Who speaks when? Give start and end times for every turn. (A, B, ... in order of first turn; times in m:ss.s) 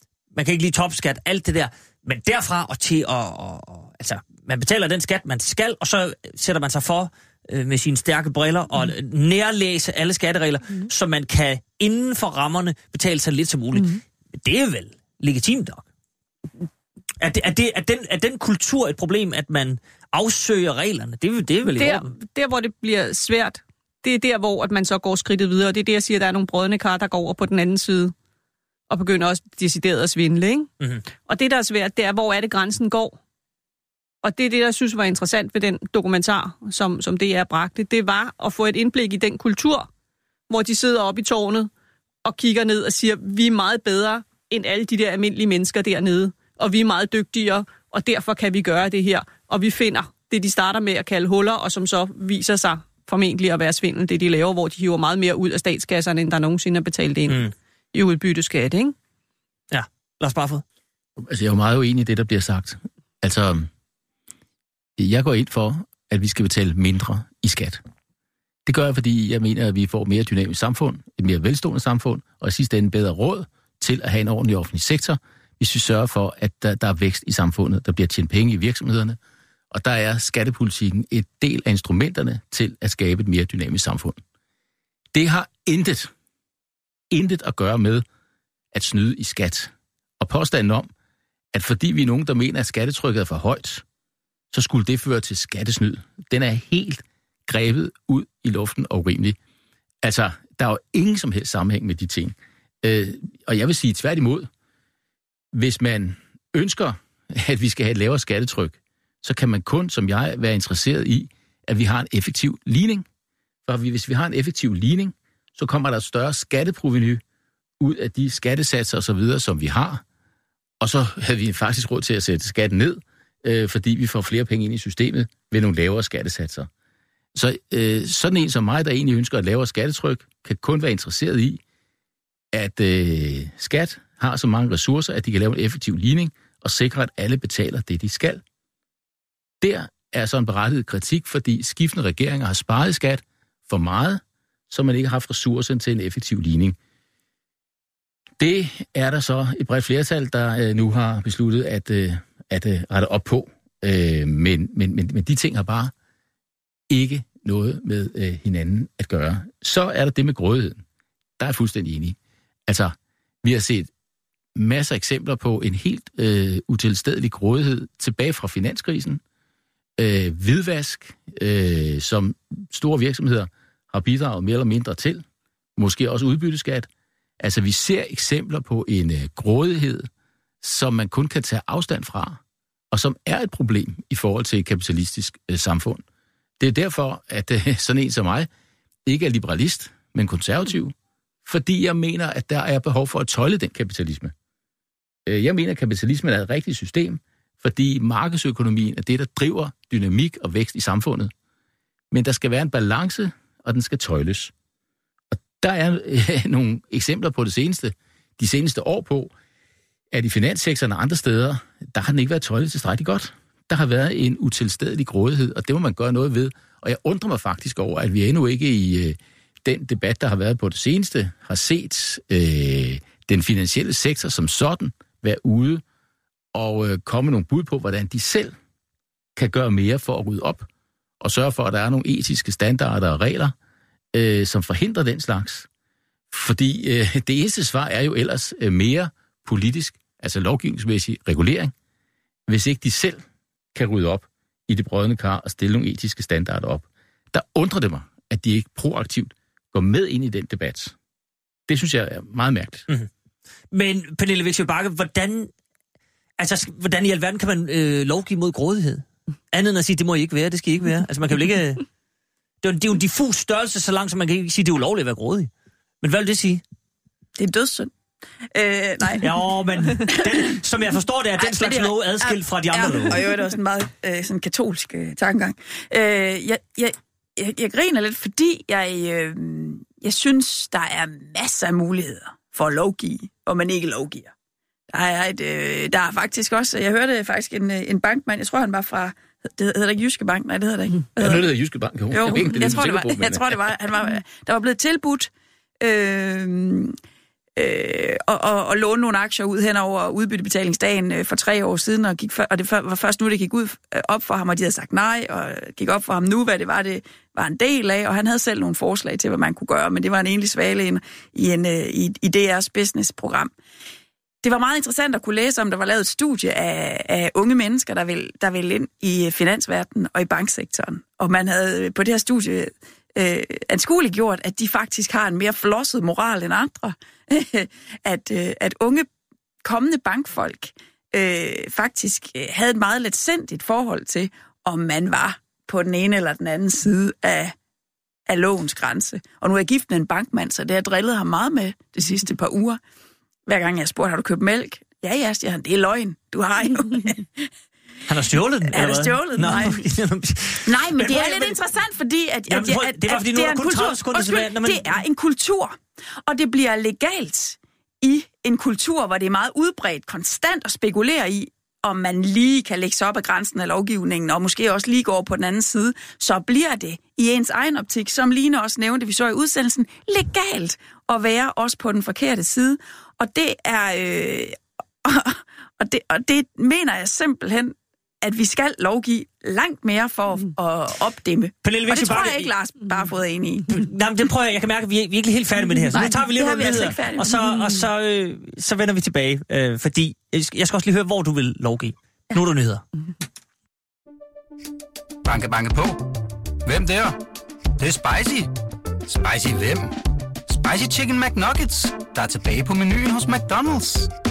0:00.3-0:15.8 A
0:17.2-0:22.1 A
0:21.6-0:28.1 B
0:28.9-0:30.7 B
0:31.2-0:33.2 B
0:34.2-0:39.9 B
0:40.5-0:41.7 B
0:42.2-0:58.9 B
0:59.7-1:00.6 A
1:01.2-1:03.7 C
1:05.0-1:07.8 C
1:08.6-1:19.2 C
1:19.7-1:24.2 C
1:25.1-1:26.1 C
1:27.1-1:28.0 C
1:28.7-1:30.9 C
1:31.5-1:33.8 C
1:34.5-1:39.4 C
1:40.0-1:44.5 C
1:45.5-1:53.0 C
1:53.6-1:57.2 C
1:57.8-2:00.0 C
2:00.8-2:06.7 C
2:07.3-2:11.6 C
2:12.5-2:18.4 C
2:19.6-2:26.8 C
2:28.4-2:35.9 C
2:36.9-2:40.8 C
2:41.4-2:42.2 C
2:42.7-2:43.9 C
2:44.5-2:49.2 C
2:50.0-2:55.2 C
2:55.8-2:56.9 C
2:57.4-3:00.1 C
3:00.6-3:02.4 C
3:02.9-3:06.0 C
3:06.6-3:08.5 C
3:09.0-3:14.3 C
3:15.2-3:21.3 C
3:22.1-3:24.5 C
3:25.3-3:29.3 C
3:30.1-3:45.8 C
3:46.5-3:48.5 C
3:49.4-3:50.7 C
3:51.2-3:53.5 C
3:54.1-3:55.7 C
3:56.3-4:01.7 C
4:02.5-4:10.9 C
4:11.7-4:12.9 C
4:13.7-4:15.5 A
4:16.4-4:21.8 A
4:22.6-4:25.5 A
4:26.0-4:26.6 A
4:27.4-4:27.9 D
4:28.5-4:29.3 D
4:29.2-4:33.2 A
4:30.0-4:30.6 D
4:31.4-4:44.3 D
4:44.9-4:51.5 D
4:51.2-4:53.7 C
4:52.1-4:55.3 D
4:55.8-4:57.0 D
4:57.6-5:13.5 D
5:14.4-5:29.1 D
5:29.6-5:37.5 D
5:38.3-5:42.8 D
5:43.5-5:47.5 D
5:48.1-5:51.6 A
5:48.7-5:49.8 D
5:50.7-6:23.7 D
5:52.5-5:55.0 A
6:21.6-6:22.5 A
6:23.7-6:32.8 A
6:25.9-6:27.6 D
6:35.2-6:37.2 E
6:37.8-6:38.5 E
6:39.0-6:40.0 E
6:40.5-6:44.1 E